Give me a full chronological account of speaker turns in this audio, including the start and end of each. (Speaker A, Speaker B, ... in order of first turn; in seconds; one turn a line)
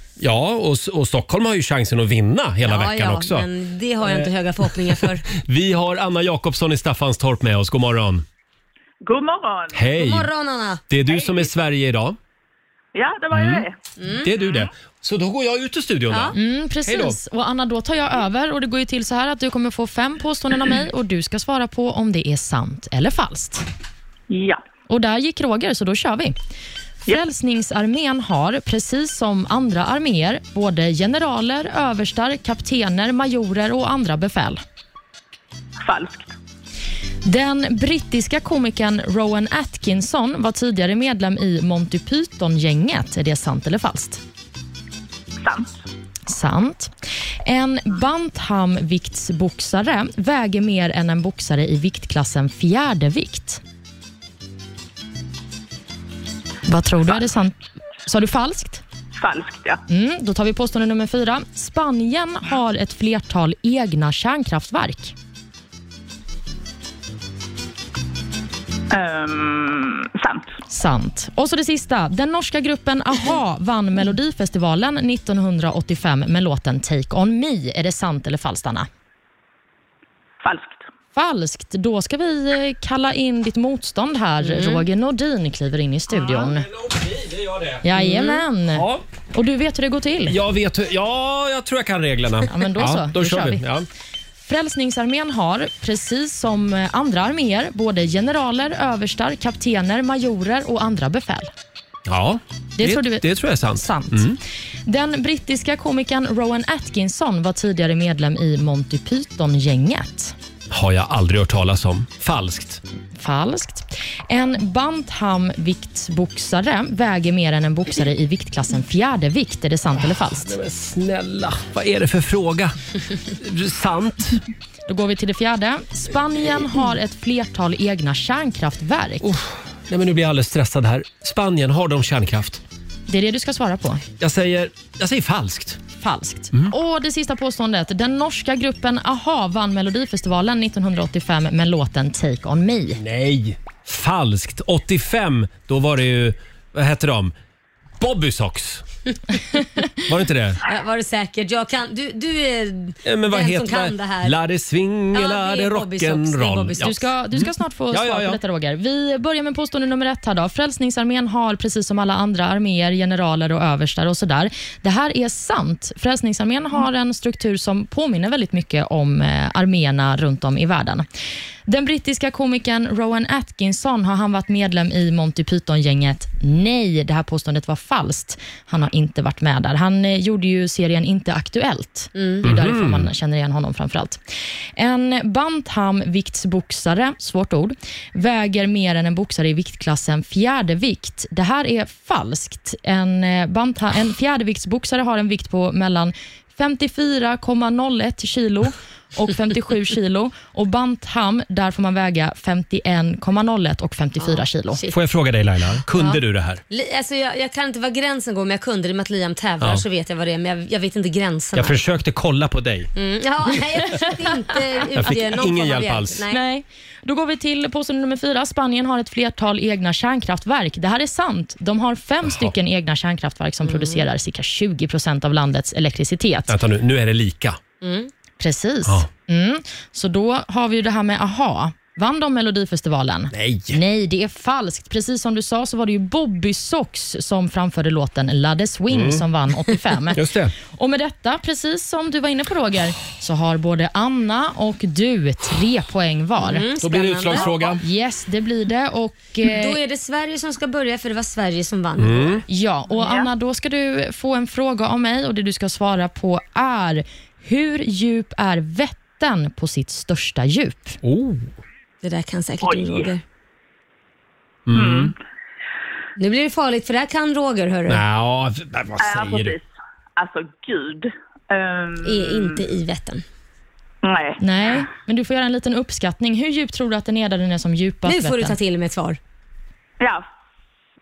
Speaker A: 0.2-3.5
Speaker B: 2.7-5.3
Speaker A: 4.0-8.2
Speaker C: 9.0-9.8
Speaker A: 9.7-10.3
Speaker B: 9.9-10.8
Speaker A: 10.9-12.2
Speaker C: 12.9-13.8
Speaker A: 13.3-13.7
Speaker B: 14.0-14.3
Speaker A: 14.2-17.2
Speaker B: 16.1-16.4
Speaker D: 16.3-23.6
Speaker C: 24.3-24.6
Speaker D: 24.9-26.4
Speaker D: 27.1-34.6
Speaker C: 35.8-36.3
Speaker D: 37.2-44.2
Speaker C: 45.4-45.8
Speaker D: 46.3-46.9
Speaker D: 47.5-53.6
Speaker D: 56.7-58.8
Speaker C: 59.2-59.8
Speaker D: 59.9-65.1
Speaker C: 68.9-70.6
Speaker D: 70.7-78.9
Speaker C: 80.4-80.8
Speaker D: 81.1-86.7
Speaker B: 84.4-84.8
Speaker A: 86.1-87.9
Speaker D: 87.8-90.4
Speaker B: 88.0-88.4
Speaker A: 88.8-89.0
Speaker A: 90.3-93.9
Speaker D: 92.5-93.6
Speaker D: 94.4-101.5
Speaker A: 102.1-104.4
Speaker D: 102.8-110.3
Speaker A: 110.7-112.8
Speaker D: 113.2-120.6
Speaker A: 120.0-122.8
Speaker A: 123.4-124.4
Speaker D: 124.9-129.3
Speaker A: 129.2-132.6
Speaker D: 133.1-134.0
Speaker A: 134.2-135.8
Speaker D: 136.0-143.0
Speaker A: 142.9-147.3
Speaker A: 148.0-148.8
Speaker A: 150.1-150.6
Speaker B: 150.7-154.3
Speaker A: 153.1-158.4
Speaker B: 155.1-156.9
Speaker D: 156.8-171.1
Speaker D: 171.7-184.2
Speaker B: 182.2-182.4
Speaker A: 182.4-183.1
Speaker D: 184.8-204.8
Speaker B: 204.2-205.0
Speaker A: 204.9-206.6
Speaker B: 205.9-206.2
Speaker B: 206.7-211.8
Speaker A: 211.5-212.9
Speaker B: 212.9-216.4
Speaker A: 214.9-216.2
Speaker D: 216.3-226.6
Speaker A: 222.2-222.5
Speaker B: 223.6-224.0
Speaker A: 226.5-227.6
Speaker B: 227.8-228.1
Speaker D: 228.4-246.6
Speaker A: 233.3-233.8
Speaker A: 238.9-239.2
Speaker A: 240.1-240.5
Speaker B: 246.4-247.8
Speaker A: 246.8-247.8
Speaker D: 247.8-249.8
Speaker B: 249.4-252.4
Speaker A: 252.0-252.4
Speaker D: 252.5-261.0
Speaker C: 253.0-253.3
Speaker A: 261.0-261.5
Speaker B: 262.0-263.2
Speaker C: 262.6-263.1
Speaker A: 264.7-265.1
Speaker C: 264.7-265.1
Speaker B: 266.2-268.0
Speaker A: 267.9-269.6
Speaker C: 269.0-272.6
Speaker B: 272.0-273.2
Speaker C: 274.0-274.4
Speaker D: 274.4-278.6
Speaker B: 278.1-279.2
Speaker C: 280.0-280.2